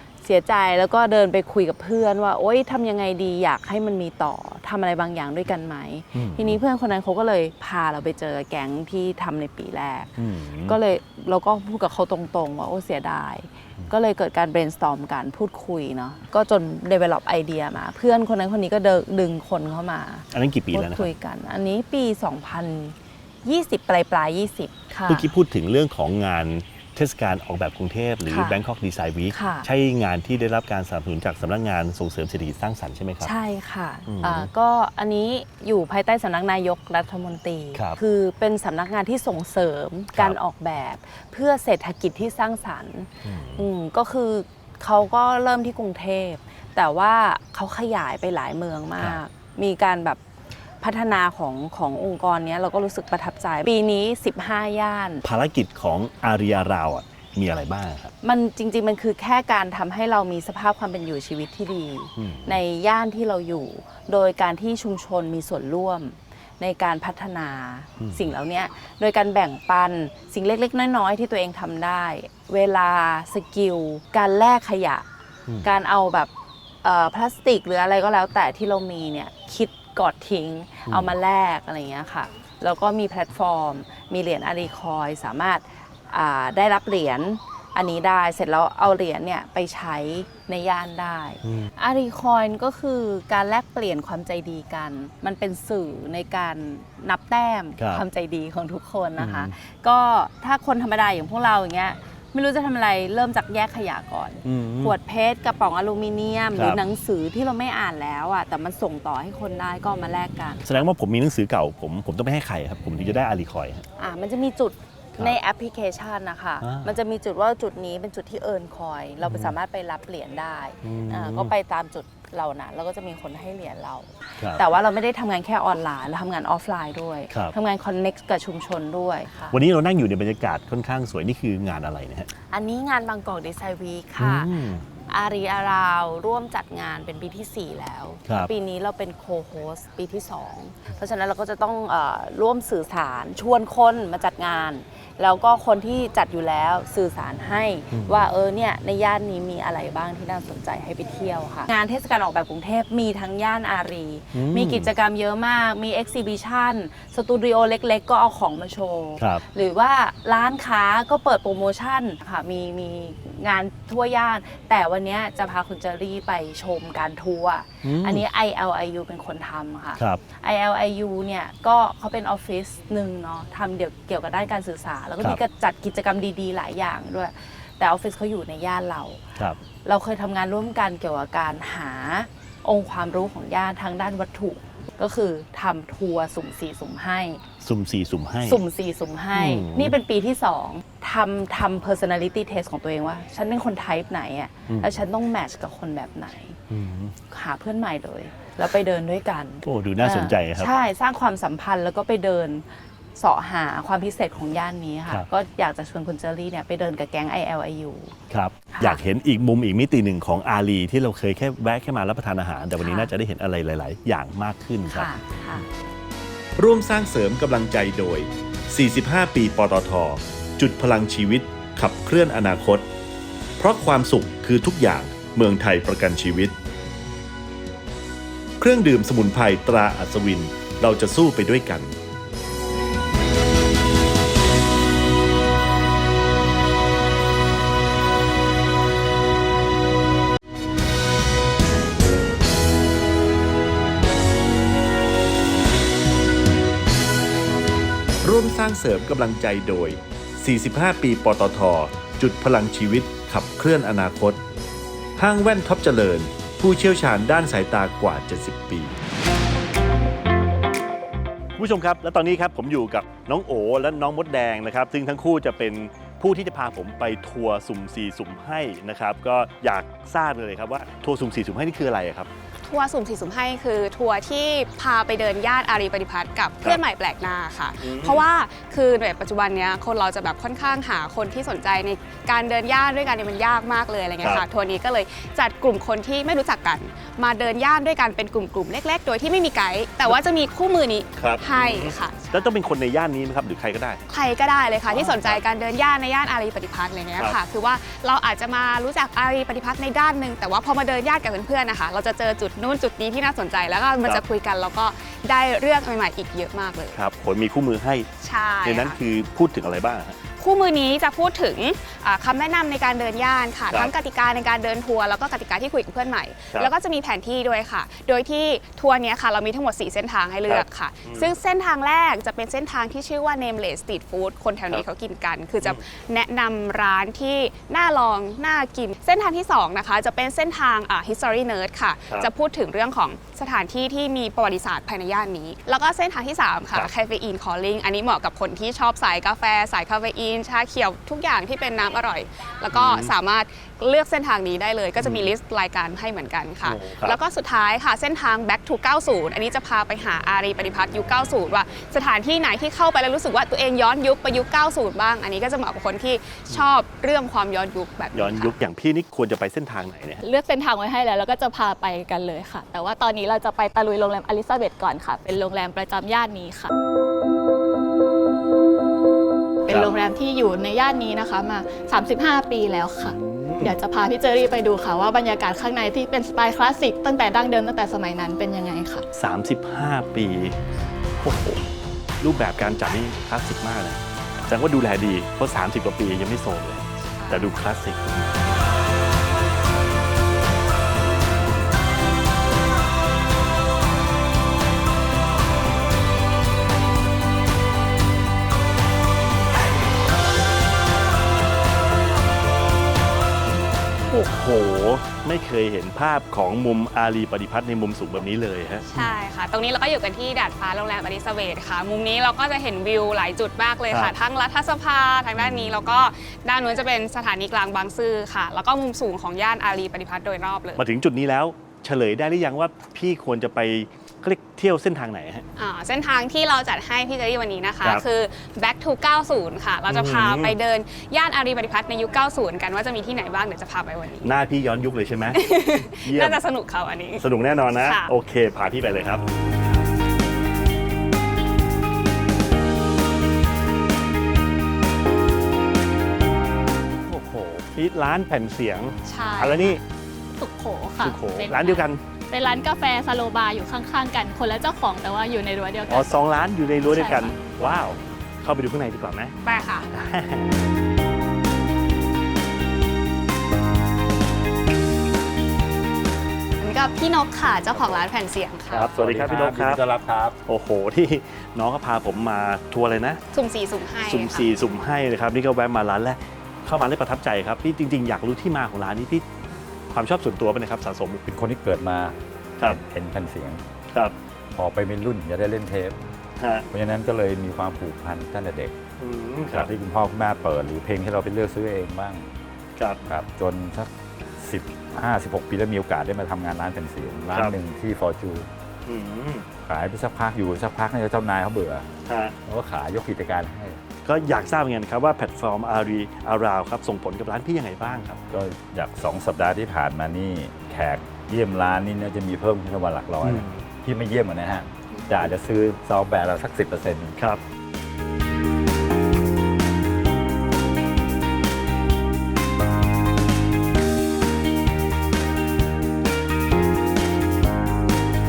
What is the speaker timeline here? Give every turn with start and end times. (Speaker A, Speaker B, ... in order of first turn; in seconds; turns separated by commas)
Speaker A: 0.2-10.1, Speaker B: 6.2-6.6, Speaker B: 10.2-10.8, Speaker A: 10.7-25.3, Speaker B: 20.3-21.1, Speaker B: 25.1-33.3, Speaker A: 28.3-28.6, Speaker A: 29.3-29.7, Speaker A: 33.2-50.2, Speaker B: 34.1-34.5, Speaker B: 43.2-43.7, Speaker A: 50.8-55.2, Speaker B: 55.2-58.1, Speaker A: 58.2-75.1, Speaker B: 62.2-62.6, Speaker B: 68.0-68.2, Speaker A: 75.6-76.3, Speaker A: 76.8-110.8, Speaker B: 80.9-81.1, Speaker B: 91.4-91.7, Speaker B: 97.8-98.0, Speaker B: 99.2-99.5, Speaker B: 104.5-105.0, Speaker B: 106.5-106.8, Speaker B: 110.6-113.8, Speaker A: 114.0-129.6, Speaker B: 116.6-117.0, Speaker B: 119.2-119.5, Speaker B: 120.8-121.5, Speaker B: 129.5-132.3, Speaker A: 132.5-134.5, Speaker B: 134.2-134.9, Speaker A: 135.1-179.2, Speaker B: 147.9-148.3, Speaker B: 154.3-154.9, Speaker B: 167.8-168.2, Speaker A: 179.8-187.4, Speaker B: 187.6-188.6, Speaker A: 188.4-196.6, Speaker B: 189.3-190.0, Speaker B: 194.7-195.0, Speaker B: 196.7-197.2, Speaker A: 197.3-208.2, Speaker B: 199.7-200.7, Speaker B: 208.3-215.7, Speaker A: 208.7-209.0, Speaker A: 212.8-213.1, Speaker A: 214.9-215.7, Speaker B: 216.6-222.9, Speaker B: 223.6-226.6, Speaker B: 228.6-232.0, Speaker B: 248.2-254.4, Speaker B: 255.2-258.9, Speaker B: 261.6-272.3, Speaker C: 272.6-292.3, Speaker B: 277.8-278.3, Speaker B: 291.2-294.0, Speaker C: 294.1-307.0, Speaker B: 294.9-295.4, Speaker B: 306.9-308.1, Speaker C: 308.2-309.0, Speaker B: 308.6-310.2, Speaker C: 310.4-358.6, Speaker B: 320.5-321.3, Speaker B: 342.7-343.1, Speaker B: 345.0-345.3, Speaker B: 346.6-347.2, Speaker B: 358.1-360.2, Speaker D: 360.2-366.7, Speaker D: 369.6-379.1, Speaker B: 369.7-369.9, Speaker B: 373.0-373.8, Speaker B: 379.1-380.6, Speaker B: 381.2-381.6, Speaker B: 382.2-388.3, Speaker C: 387.2-387.5, Speaker B: 404.1-409.1, Speaker C: 408.9-420.8, Speaker B: 413.9-414.2, Speaker B: 415.4-415.8, Speaker B: 420.8-425.4, Speaker C: 425.6-434.3, Speaker B: 429.9-430.6, Speaker B: 434.2-436.4, Speaker C: 435.3-438.1, Speaker B: 437.2-439.2, Speaker B: 447.1-449.8, Speaker D: 449.1-449.8, Speaker D: 450.4-456.1, Speaker B: 451.0-452.0, Speaker B: 455.9-459.3, Speaker D: 456.9-457.3, Speaker C: 459.4-459.9, Speaker B: 459.9-460.5, Speaker C: 466.6-469.0, Speaker B: 468.7-469.8, Speaker E: 468.9-470.4, Speaker B: 470.5-473.2, Speaker C: 473.3-474.5, Speaker B: 474.1-479.3, Speaker B: 479.9-481.2, Speaker E: 481.3-483.6, Speaker E: 484.6-486.0, Speaker B: 486.4-486.7, Speaker E: 486.7-488.8, Speaker B: 489.0-489.7, Speaker E: 489.5-492.2, Speaker E: 493.1-498.5, Speaker B: 498.9-499.5, Speaker E: 499.7-501.9, Speaker B: 502.1-502.3, Speaker E: 502.5-503.8, Speaker B: 504.1-508.2, Speaker E: 508.3-517.2, Speaker B: 513.2-513.6